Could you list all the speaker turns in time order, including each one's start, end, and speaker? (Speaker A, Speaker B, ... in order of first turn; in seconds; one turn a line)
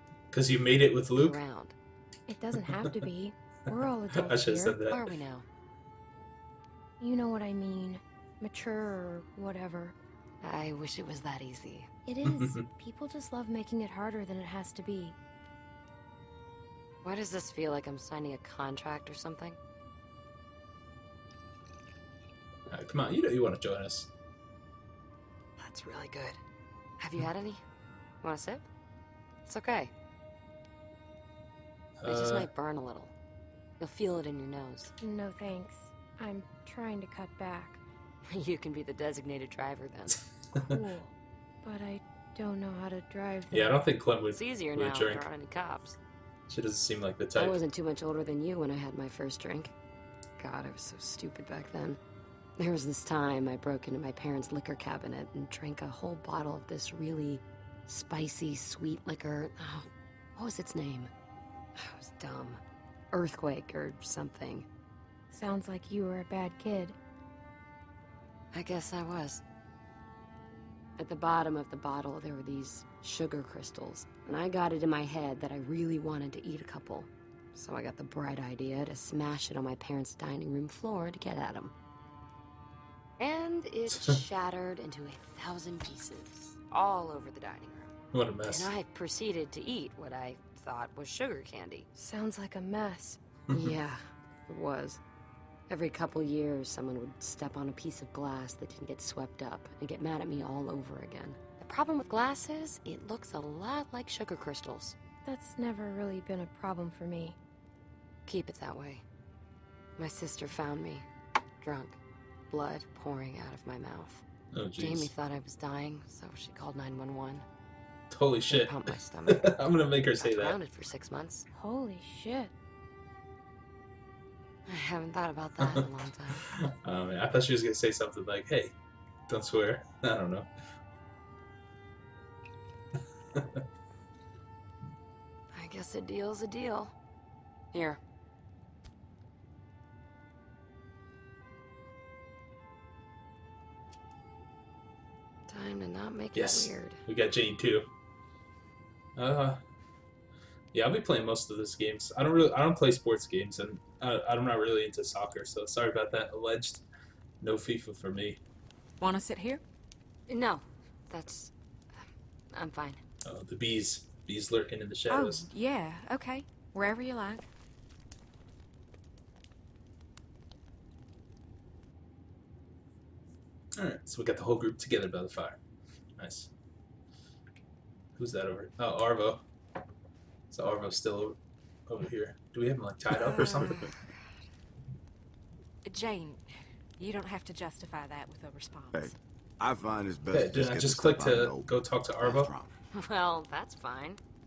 Speaker A: 0.3-1.4
Speaker B: 1.1-1.8
Speaker C: 2.3-4.8
Speaker A: 2.5-3.0
Speaker A: 4.1-5.1
Speaker B: 4.9-5.5
Speaker C: 7.0-10.0
Speaker B: 10.4-11.9
Speaker C: 12.1-15.2
Speaker A: 12.2-12.7
Speaker B: 17.0-19.6
Speaker A: 22.7-24.1
Speaker B: 25.6-26.4
Speaker B: 27.0-27.6
Speaker B: 28.2-28.7
Speaker B: 29.5-29.9
Speaker A: 32.0-32.5
Speaker B: 32.1-33.1
Speaker B: 33.8-34.9
Speaker C: 35.0-37.8
Speaker B: 38.3-40.2
Speaker C: 40.6-43.8
Speaker A: 43.5-45.2
Speaker B: 44.3-46.0
Speaker A: 46.5-47.6
Speaker B: 47.4-49.7
Speaker B: 50.4-52.0
Speaker B: 52.6-61.1
Speaker B: 61.8-62.6
Speaker B: 63.1-64.7
Speaker C: 65.3-67.0
Speaker B: 68.5-69.4
Speaker B: 71.0-81.7
Speaker B: 83.2-91.9
Speaker A: 88.1-88.7
Speaker C: 92.0-93.2
Speaker A: 93.5-93.8
Speaker B: 93.5-95.0
Speaker B: 95.7-105.0
Speaker C: 105.2-107.4
Speaker B: 108.3-109.0
Speaker B: 110.0-111.1
Speaker B: 111.6-112.0
Speaker B: 112.5-114.2
Speaker A: 114.5-115.1
Speaker B: 114.8-117.5
Speaker A: 118.1-120.6
Speaker B: 118.5-119.6
Speaker B: 120.2-121.5
Speaker C: 121.5-122.5
Speaker B: 124.7-126.4
Speaker A: 125.6-128.7
Speaker A: 129.3-130.5
Speaker A: 133.4-133.6
Speaker B: 135.5-136.9
Speaker B: 137.7-138.0
Speaker B: 145.5-147.0
Speaker A: 146.3-147.9
Speaker A: 149.2-149.6
Speaker A: 150.7-156.8
Speaker A: 157.4-158.4
Speaker D: 159.0-159.6
Speaker B: 160.3-161.5
Speaker B: 162.5-163.0
Speaker A: 163.2-165.5
Speaker D: 165.1-167.5
Speaker A: 173.8-175.6
Speaker A: 176.2-176.5
Speaker A: 178.2-179.4
Speaker A: 180.5-183.8
Speaker D: 183.2-183.6
Speaker B: 183.3-184.3
Speaker D: 185.8-189.1
Speaker E: 188.9-192.7
Speaker A: 190.3-192.5
Speaker B: 192.9-194.2